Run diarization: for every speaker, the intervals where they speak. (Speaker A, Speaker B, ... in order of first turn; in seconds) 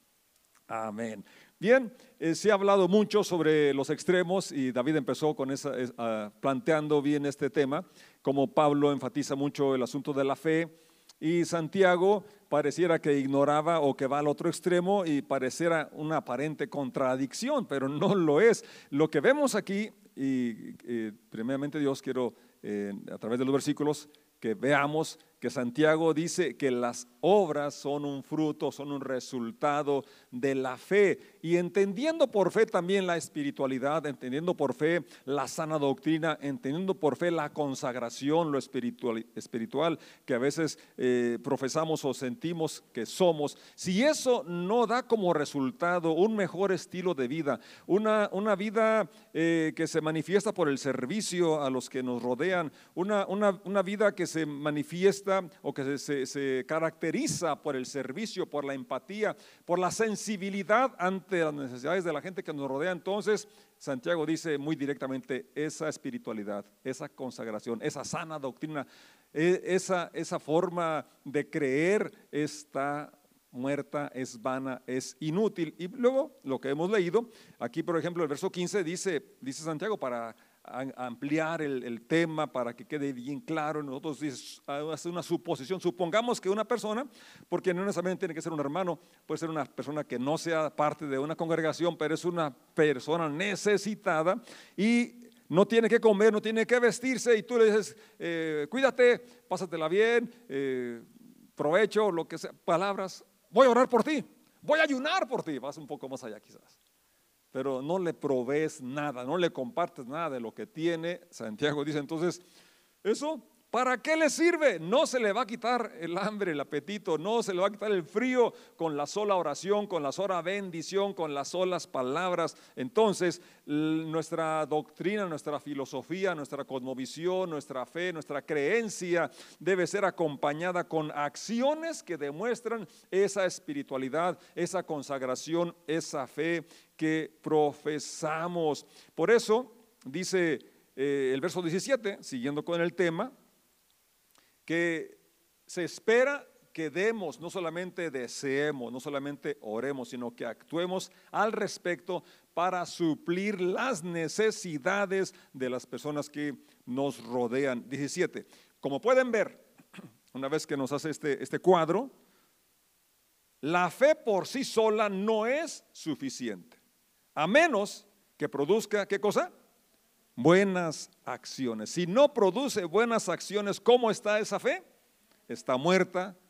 Speaker A: 0.7-101.0, 101.6-106.8, 107.5-112.4, 113.0-143.3, 144.7-159.6, 160.3-162.1, 163.6-166.8, 167.3-169.5, 170.4-174.8, 175.5-176.4